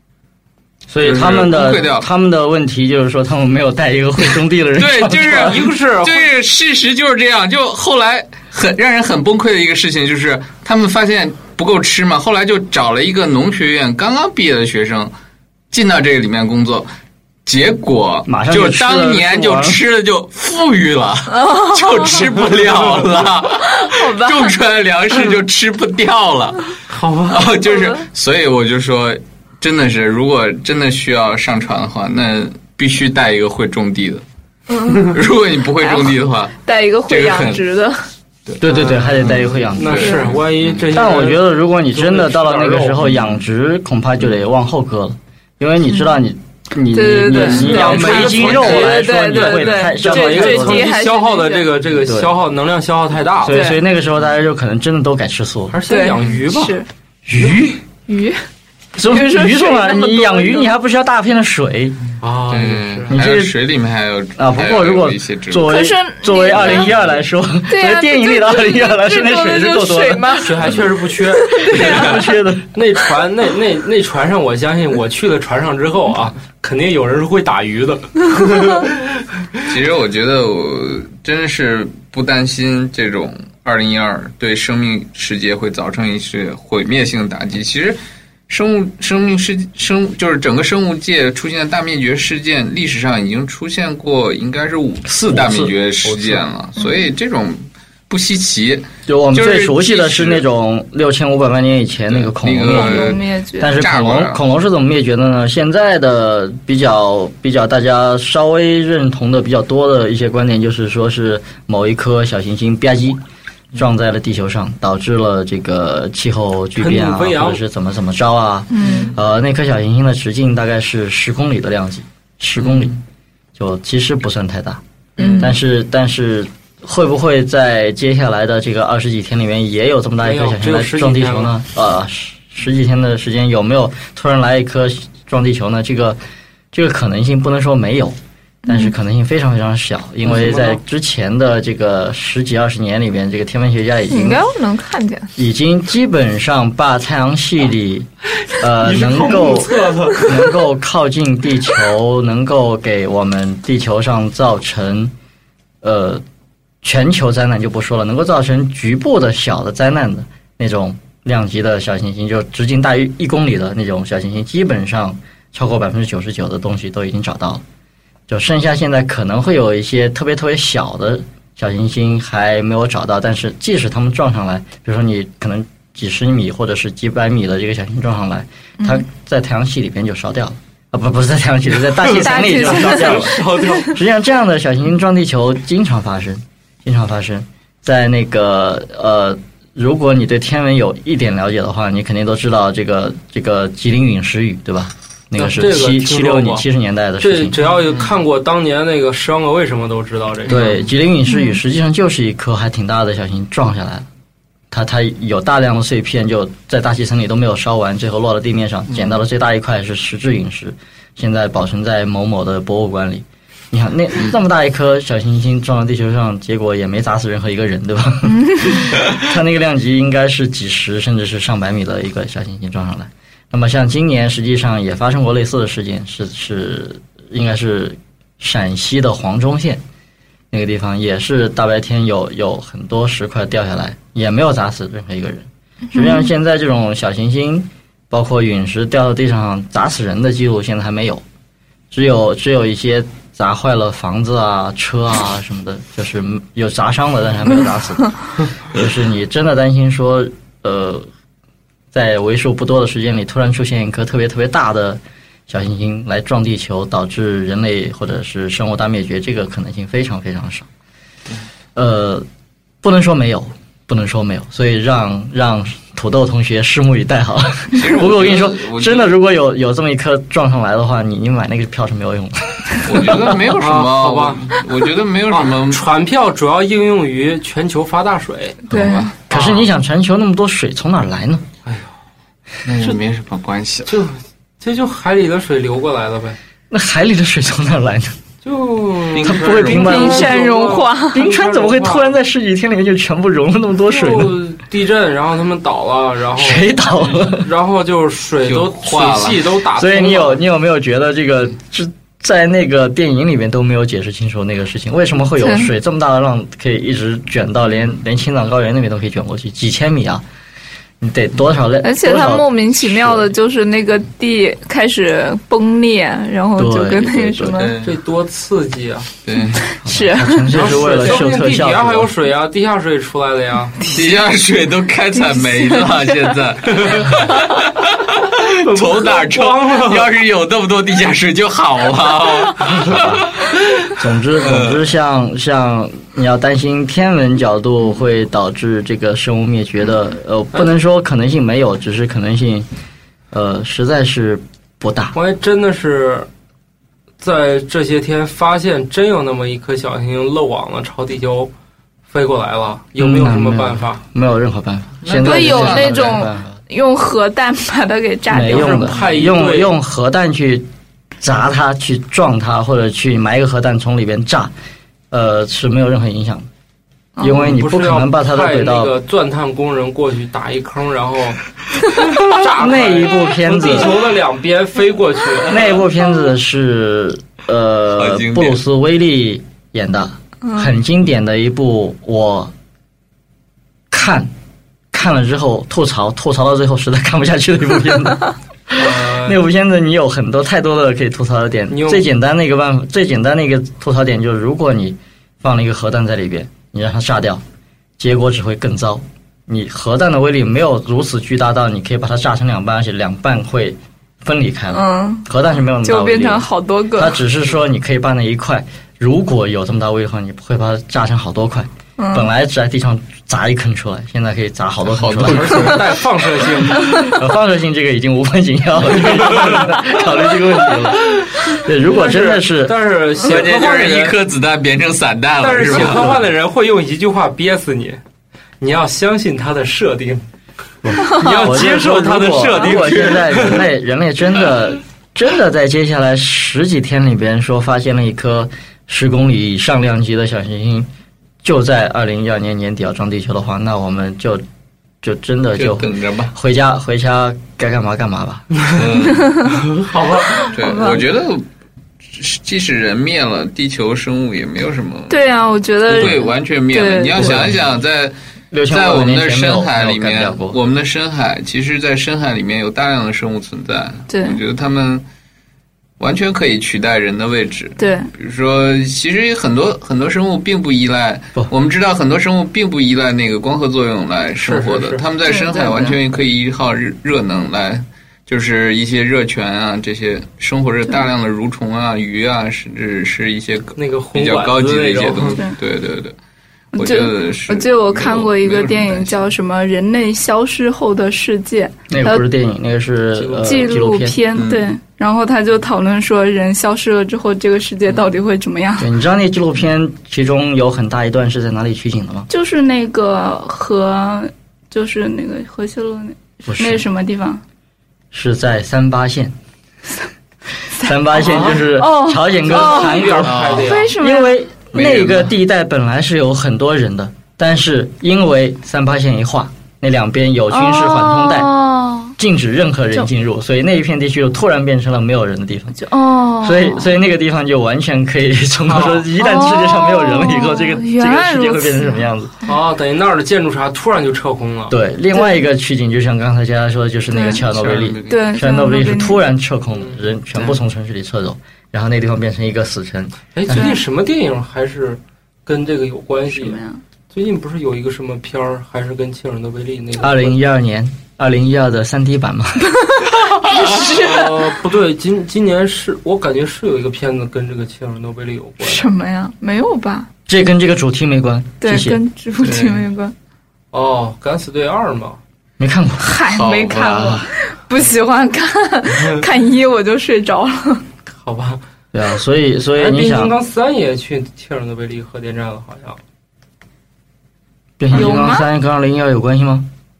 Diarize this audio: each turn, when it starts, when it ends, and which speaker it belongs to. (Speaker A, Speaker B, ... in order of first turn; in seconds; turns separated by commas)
Speaker A: 0.9-5.6, Speaker B: 1.0-2.0, Speaker B: 4.8-15.1, Speaker C: 5.3-6.3, Speaker B: 15.7-16.9, Speaker B: 17.4-26.7, Speaker A: 18.3-19.8, Speaker D: 21.3-22.3, Speaker D: 23.6-24.6, Speaker C: 26.9-27.5, Speaker B: 27.3-34.2, Speaker D: 27.7-28.0, Speaker D: 34.7-35.1, Speaker B: 35.0-36.5, Speaker D: 35.8-38.0, Speaker B: 37.1-37.6, Speaker A: 38.6-40.1, Speaker C: 38.6-43.0, Speaker B: 39.2-40.9, Speaker D: 40.0-40.3, Speaker A: 40.9-50.9, Speaker B: 43.0-43.3, Speaker D: 46.9-51.7, Speaker C: 47.3-53.7, Speaker A: 52.0-52.3, Speaker A: 53.4-55.8, Speaker D: 53.5-53.8, Speaker C: 55.7-56.8, Speaker D: 55.9-56.9, Speaker A: 57.2-57.8, Speaker D: 58.1-58.4, Speaker A: 58.9-62.0, Speaker D: 59.0-60.7, Speaker C: 62.2-63.2, Speaker B: 62.5-65.7, Speaker A: 63.1-63.5, Speaker A: 64.4-70.7, Speaker D: 65.6-66.9, Speaker D: 67.7-70.7, Speaker C: 70.3-72.1, Speaker D: 71.3-72.3, Speaker A: 71.6-72.7, Speaker C: 72.7-79.0, Speaker B: 79.7-100.4, Speaker A: 95.1-96.4, Speaker A: 99.1-113.2, Speaker B: 102.1-104.4, Speaker D: 102.6-103.8, Speaker A: 113.7-123.0, Speaker C: 116.8-117.6, Speaker D: 118.7-119.1, Speaker B: 122.6-123.0, Speaker A: 123.5-124.8, Speaker C: 125.2-125.5, Speaker D: 125.2-125.5, Speaker A: 125.4-136.2, Speaker C: 130.2-131.6, Speaker A: 136.7-144.4, Speaker C: 140.2-140.8, Speaker D: 144.1-145.3, Speaker A: 145.3-155.1, Speaker C: 148.8-150.3, Speaker A: 155.8-156.2, Speaker A: 156.8-167.6, Speaker A: 168.3-197.6, Speaker C: 182.0-184.0, Speaker D: 182.2-183.7, Speaker C: 195.3-196.6, Speaker C: 197.2-200.8, Speaker B: 200.5-200.7, Speaker A: 200.5-204.1, Speaker D: 201.3-201.6, Speaker A: 204.7-229.8, Speaker A: 230.5-241.2, Speaker D: 235.9-236.2, Speaker A: 241.9-251.1, Speaker A: 251.9-260.7, Speaker A: 261.8-262.2, Speaker A: 262.8-273.3, Speaker B: 267.7-269.1, Speaker B: 272.8-275.8, Speaker C: 273.5-274.5, Speaker C: 275.3-278.7, Speaker B: 278.7-279.1, Speaker D: 278.7-279.1, Speaker A: 279.3-281.4, Speaker C: 279.3-279.7, Speaker C: 281.6-281.9, Speaker B: 282.6-283.9, Speaker C: 283.8-286.4, Speaker A: 286.7-288.1, Speaker C: 288.4-292.2, Speaker B: 289.1-290.0, Speaker A: 289.2-290.3, Speaker D: 289.7-291.3, Speaker A: 291.1-294.4, Speaker C: 293.9-300.4, Speaker A: 296.4-297.5, Speaker B: 298.4-299.5, Speaker A: 299.8-310.2, Speaker D: 305.4-305.7, Speaker A: 311.0-313.3, Speaker D: 311.8-317.7, Speaker A: 316.6-317.7, Speaker B: 317.5-318.0, Speaker C: 317.8-319.1, Speaker B: 319.2-319.7, Speaker D: 319.7-320.5, Speaker A: 319.8-322.1, Speaker C: 320.5-323.8, Speaker B: 323.8-334.9, Speaker D: 325.1-326.3, Speaker C: 328.6-330.1, Speaker A: 332.6-333.3, Speaker A: 333.9-342.7, Speaker A: 343.3-345.1, Speaker C: 345.1-346.3, Speaker C: 347.2-351.5, Speaker C: 352.1-354.0, Speaker A: 353.0-356.6, Speaker B: 355.0-356.3, Speaker D: 355.1-359.0, Speaker A: 358.3-360.6, Speaker C: 358.5-359.8, Speaker A: 361.2-364.5, Speaker A: 365.1-366.5, Speaker A: 367.2-368.9, Speaker C: 367.2-371.4, Speaker C: 372.0-375.8, Speaker A: 372.4-374.0, Speaker A: 375.4-382.5, Speaker B: 377.9-378.6, Speaker D: 380.4-380.7, Speaker A: 383.9-384.3, Speaker A: 384.9-397.4, Speaker C: 388.7-389.4, Speaker C: 391.7-392.1, Speaker A: 398.0-415.9, Speaker D: 404.7-405.3, Speaker D: 405.8-407.2, Speaker D: 412.0-412.3, Speaker B: 414.9-415.8, Speaker C: 415.2-416.9, Speaker A: 416.7-422.8, Speaker C: 419.1-419.5, Speaker C: 421.8-424.2, Speaker B: 423.2-426.2, Speaker C: 425.4-428.0, Speaker C: 428.6-430.2, Speaker A: 430.8-440.9, Speaker C: 431.0-433.6, Speaker A: 441.4-444.4, Speaker A: 445.0-448.5, Speaker B: 445.6-446.3, Speaker B: 448.7-449.6, Speaker C: 449.5-450.5, Speaker B: 450.5-451.4, Speaker D: 450.6-451.0, Speaker B: 452.1-455.2, Speaker D: 455.1-457.4, Speaker B: 455.9-458.1, Speaker A: 455.9-456.2, Speaker A: 457.1-457.6, Speaker A: 458.5-460.6, Speaker B: 458.7-465.0, Speaker D: 464.1-464.4, Speaker B: 466.0-486.1, Speaker D: 467.8-468.1, Speaker C: 474.4-475.1, Speaker D: 475.2-476.0, Speaker C: 483.8-485.4, Speaker D: 486.7-492.2, Speaker B: 486.8-489.3, Speaker A: 491.9-494.2, Speaker C: 493.1-493.7, Speaker D: 493.4-498.9, Speaker B: 494.3-494.7, Speaker A: 498.8-502.3, Speaker D: 502.3-507.4, Speaker A: 506.4-506.8, Speaker A: 508.1-509.3, Speaker A: 510.8-521.5, Speaker D: 510.9-514.4, Speaker C: 511.2-511.6, Speaker C: 512.4-513.9, Speaker B: 513.2-513.7, Speaker B: 514.7-515.3, Speaker D: 520.5-522.1, Speaker A: 522.2-525.8, Speaker D: 525.8-526.9, Speaker A: 526.4-532.3, Speaker C: 528.7-529.1, Speaker D: 529.1-532.0, Speaker C: 532.4-534.8, Speaker A: 534.7-543.7, Speaker D: 535.1-535.4, Speaker D: 537.1-537.4, Speaker B: 537.4-538.2, Speaker D: 538.1-539.2, Speaker C: 539.7-540.1, Speaker C: 543.3-550.3, Speaker D: 546.3-546.8, Speaker A: 550.0-552.8, Speaker D: 553.4-554.5, Speaker B: 553.5-553.9, Speaker C: 553.6-558.9, Speaker D: 558.6-560.1, Speaker A: 560.3-562.0, Speaker D: 561.6-563.1, Speaker B: 562.4-562.8, Speaker C: 563.7-565.2, Speaker A: 565.6-566.2, Speaker D: 566.0-570.8, Speaker B: 566.3-567.3, Speaker C: 571.2-571.6, Speaker A: 571.9-573.4, Speaker C: 572.8-576.0, Speaker A: 577.8-579.7, Speaker D: 577.9-578.5